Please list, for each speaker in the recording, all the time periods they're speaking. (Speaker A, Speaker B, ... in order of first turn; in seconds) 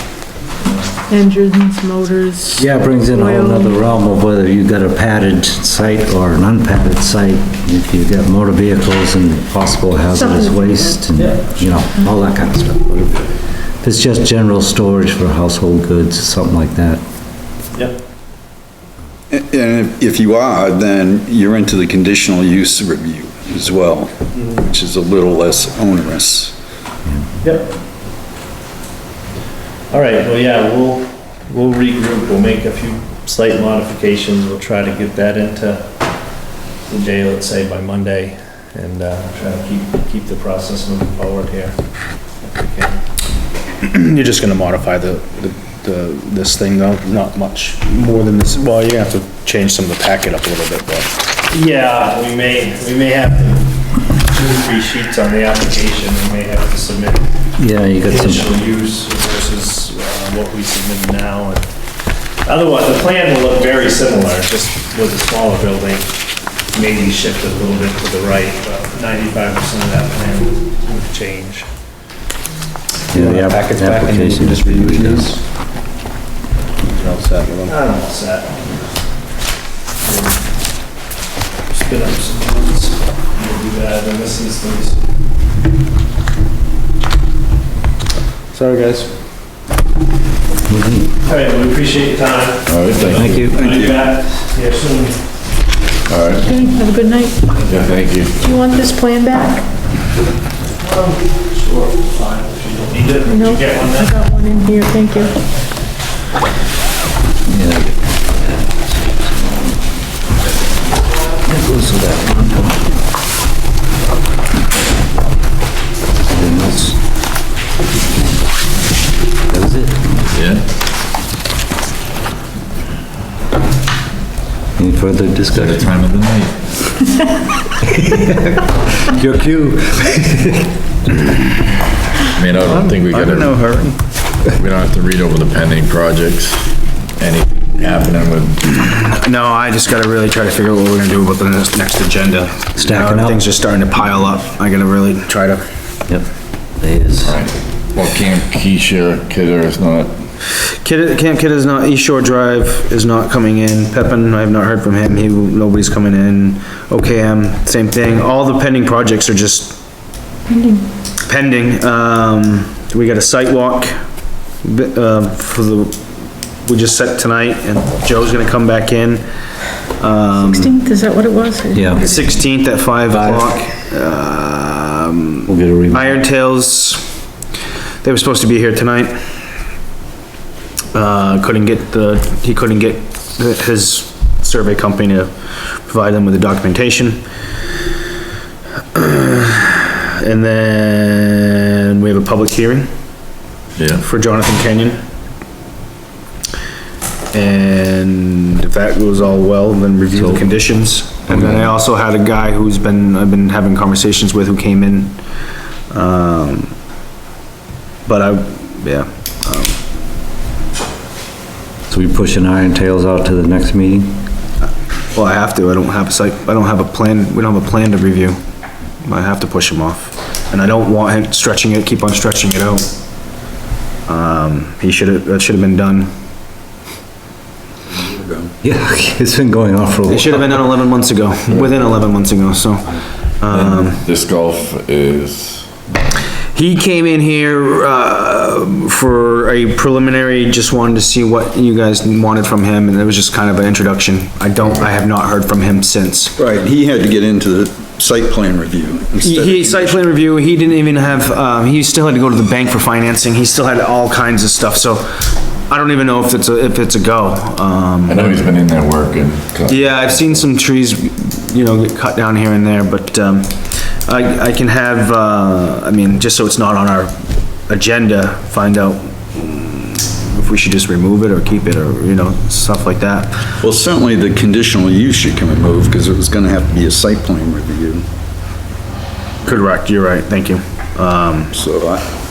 Speaker A: 0.6-1.0, 11.2-11.7, 27.4-27.7, 29.9-35.9, 36.9-41.8, 42.4-43.0, 51.5-53.7, 54.2-57.2, 58.0-61.7, 62.5-66.1, 66.7-71.7, 77.7-79.1, 80.0-80.4, 81.7-85.0, 91.2-95.3, 100.8-104.2, 105.1-105.4
Speaker B: 1.1-3.8, 10.1-11.0, 96.4-97.6, 98.4-99.7, 103.3-105.3, 160.5-160.9, 170.5-172.3
Speaker C: 2.6-13.2, 13.8-17.0, 57.6-58.4, 73.1-75.3, 90.7-91.1, 93.1-93.6, 107.5-109.8, 111.4-113.0, 116.2-117.0, 119.5-120.3, 124.8-125.9, 129.1-130.7, 142.8-143.4, 146.8-147.4, 171.7-172.1, 173.1-173.4, 175.5-176.2, 211.9-214.2, 228.6-230.8
Speaker D: 19.3-26.6, 93.5-94.1, 132.6-134.0, 227.9-228.5, 246.4-250.0, 273.6-278.1, 281.5-282.1
Speaker E: 43.8-51.1, 73.1-75.4, 76.8-77.8, 88.5-89.1, 138.9-145.6, 150.6-159.8, 161.2-164.0, 164.6-166.0, 166.7-169.2, 170.0-170.8, 172.0-177.2, 178.0-179.3, 180.9-187.3, 188.9-192.9, 194.0-195.0, 197.3-205.2, 205.9-206.8, 208.1-209.8, 215.1-218.4, 219.0-222.8, 224.1-226.1, 230.1-234.0, 236.6-246.3, 249.2-258.5, 259.7-267.2, 267.7-273.5, 279.4-281.5
Speaker F: 92.7-93.4, 96.1-96.6, 97.7-98.4, 120.3-120.6, 125.5-126.6, 132.4-133.7, 134.5-138.8, 147.2-150.1, 193.8-194.1, 201.3-201.7, 233.5-235.7, 258.1-260.2